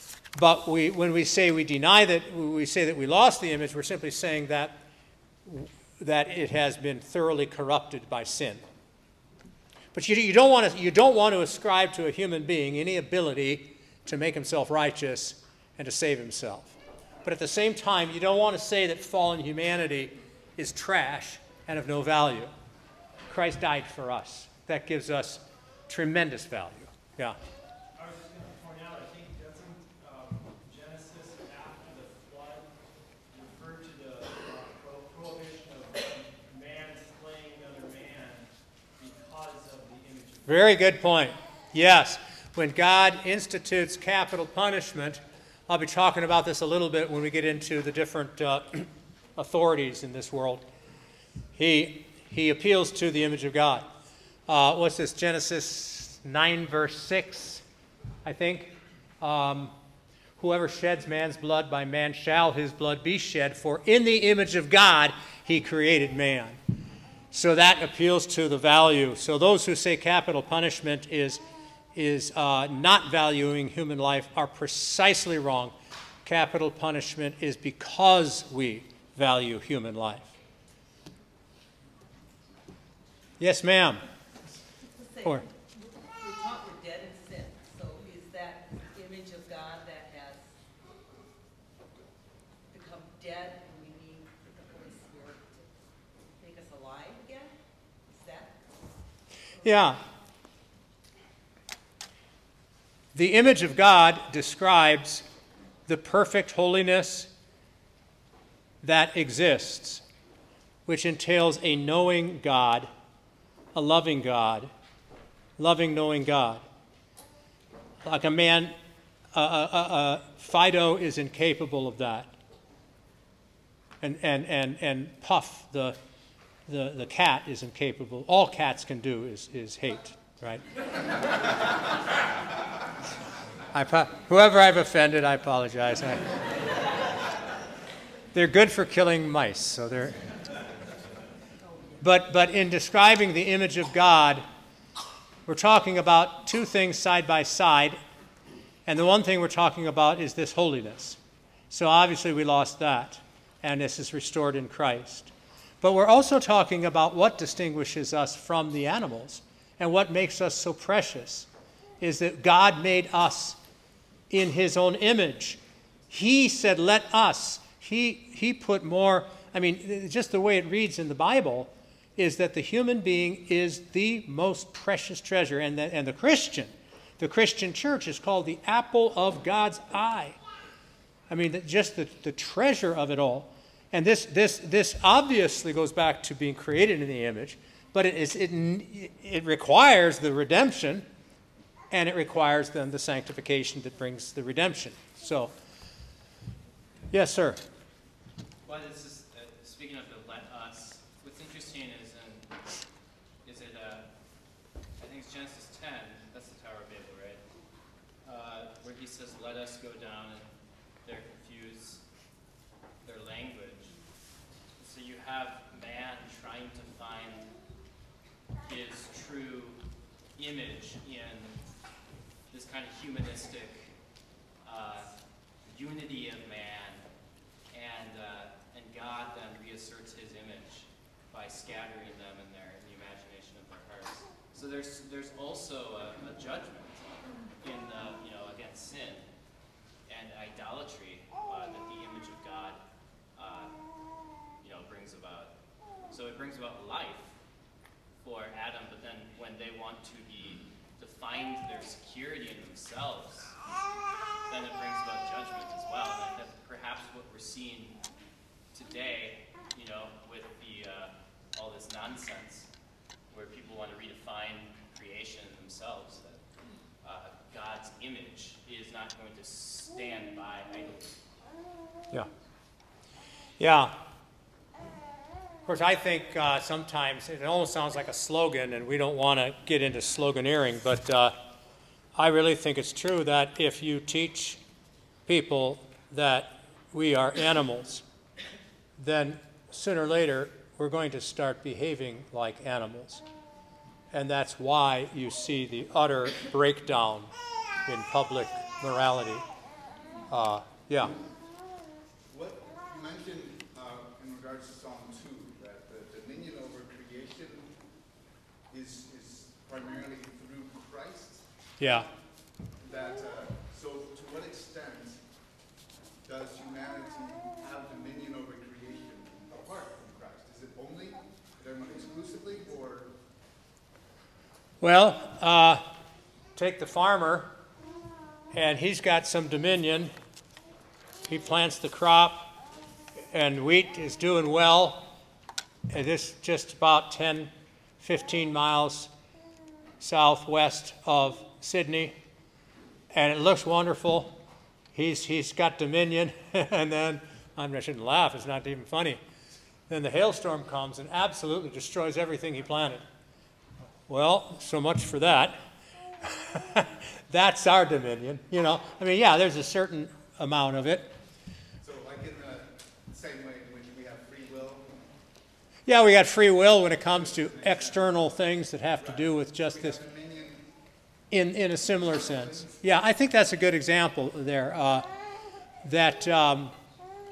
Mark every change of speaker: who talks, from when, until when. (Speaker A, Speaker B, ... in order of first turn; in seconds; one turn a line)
Speaker A: 0.3-4.8
Speaker A: 5.5-8.6
Speaker A: 9.9-22.5
Speaker A: 23.3-27.4
Speaker B: 28.0-32.7
Speaker B: 33.3-40.8
Speaker A: 40.5-50.6
Speaker A: 51.6-53.9
Speaker A: 54.5-57.6
Speaker A: 58.2-59.7
Speaker A: 60.4-66.6
Speaker A: 67.3-71.4
Speaker A: 72.0-75.7
Speaker A: 76.2-80.3
Speaker A: 83.4-84.0
Speaker C: 85.0-85.5
Speaker C: 86.0-90.5
Speaker C: 92.7-95.7
Speaker C: 96.4-97.5
Speaker C: 98.1-98.6
Speaker A: 99.6-100.0
Speaker A: 103.1-105.2
Speaker A: 105.9-107.3
Speaker A: 108.8-110.0
Speaker A: 110.9-112.9
Speaker A: 113.7-114.7
Speaker A: 115.6-116.6
Speaker A: 118.0-118.7
Speaker A: 119.3-122.3
Speaker A: 124.0-126.0
Speaker A: 126.7-130.6
Speaker A: 133.7-136.3
Speaker A: 138.3-140.2
Speaker A: 142.0-144.4
Speaker A: 145.5-148.0
Speaker A: 148.9-151.2
Speaker A: 151.7-155.3
Speaker A: 155.8-161.5
Speaker A: 162.0-163.6
Speaker A: 164.3-165.6
Speaker A: 166.1-180.4
Speaker A: 181.3-191.1
Speaker A: 191.9-195.5
Speaker A: 197.1-197.6
Speaker D: 198.6-202.5
Speaker D: 203.4-204.1
Speaker D: 205.0-207.4
Speaker D: 208.2-210.5
Speaker D: 211.0-212.0
Speaker D: 213.0-213.9
Speaker D: 214.8-217.5
Speaker D: 218.6-219.8
Speaker D: 220.4-221.6
Speaker D: 222.5-223.9
Speaker D: 224.6-225.1
Speaker D: 225.7-227.0
Speaker D: 227.7-239.3
Speaker D: 240.1-242.8
Speaker D: 243.3-243.7
Speaker D: 244.6-245.5
Speaker D: 246.1-247.3
Speaker D: 248.2-253.6
Speaker D: 254.5-258.0
Speaker D: 258.7-262.7
Speaker D: 263.3-266.4
Speaker D: 267.0-271.2
Speaker A: 273.6-273.9
Speaker A: 275.7-281.3
Speaker A: 282.2-284.6
Speaker A: 285.3-288.0
Speaker A: 289.0-293.2
Speaker A: 294.1-297.3
Speaker A: 297.9-299.4
Speaker A: 300.3-301.1
Speaker E: 302.3-307.7
Speaker E: 308.7-312.1
Speaker A: 311.8-312.1
Speaker E: 312.8-315.2
Speaker E: 316.2-323.1
Speaker A: 324.8-325.9
Speaker A: 326.6-327.5
Speaker A: 328.5-330.1
Speaker A: 331.3-332.5
Speaker A: 333.3-335.1
Speaker A: 335.9-339.1
Speaker A: 340.0-342.1
Speaker A: 343.1-344.4
Speaker A: 344.9-349.2
Speaker A: 349.9-353.0
Speaker A: 354.1-355.6
Speaker A: 356.2-361.1
Speaker E: 361.8-364.9
Speaker A: 365.9-370.0
Speaker E: 367.0-368.3
Speaker E: 369.0-370.7
Speaker A: 371.3-375.1
Speaker E: 372.1-372.7
Speaker A: 375.8-376.7